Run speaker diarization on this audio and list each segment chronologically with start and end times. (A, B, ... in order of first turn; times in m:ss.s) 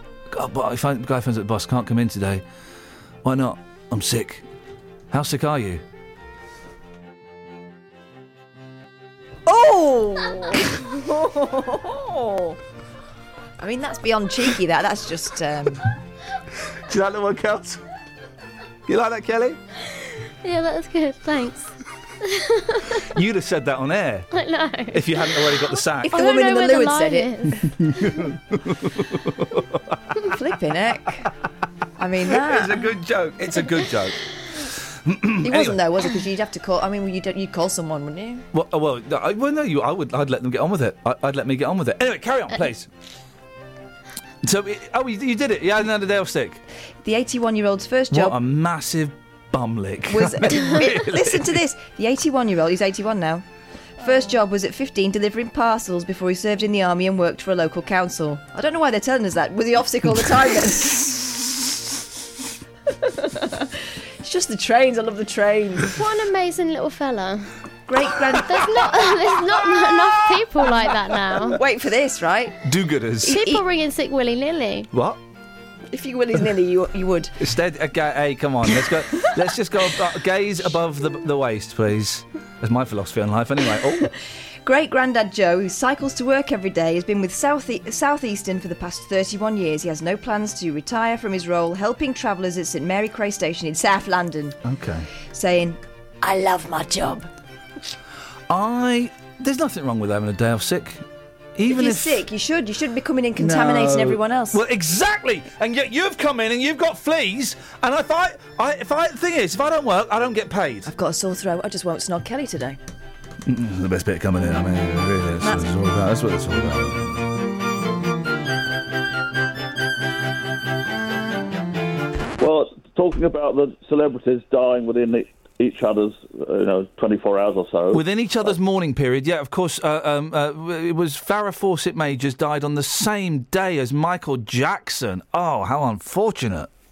0:00.3-0:02.4 A
0:03.2-0:04.4 A
0:05.1-0:05.8 A
0:09.4-0:12.6 B
0:13.6-0:15.8 B
0:16.7-0:17.8 A
0:18.9-0:19.6 A
0:20.4-0:23.1 C
0:23.0-0:24.3 A
0:24.3-0:25.5 C
0:24.9-0:26.2 A
0:26.1-0:27.7 C
0:26.1-0:27.3 B
0:27.8-0:30.1 A
0:30.3-0:31.3 B
0:32.0-0:32.9 B
0:32.3-0:35.8 A
0:35.4-0:38.4 B
0:38.5-0:42.9 A
0:44.4-0:46.6 A
0:47.0-0:48.4 B
0:48.1-0:51.6 A
0:50.1-0:53.4 B
0:54.0-1:01.2 B
1:03.0-1:05.9 B
1:05.9-1:07.5 C
1:07.9-1:09.1 B
1:08.4-1:11.6 C
1:11.5-1:12.6 B
1:12.6-1:13.4 A
1:13.2-1:13.6 B
1:13.2-1:14.9 C
1:14.9-1:15.2 A
1:15.9-1:17.3 B
1:17.4-1:24.1 A
1:24.6-1:34.6 B
1:34.6-1:35.1 A
1:35.3-1:37.3 B
1:38.5-1:41.0 A
1:41.6-1:42.2 A
1:41.7-1:44.6 B
1:43.4-1:50.9 A
1:50.8-1:52.8 B
1:53.4-1:57.2 A
1:55.4-1:55.7 B
2:02.4-2:08.0 D
2:07.9-2:16.7 A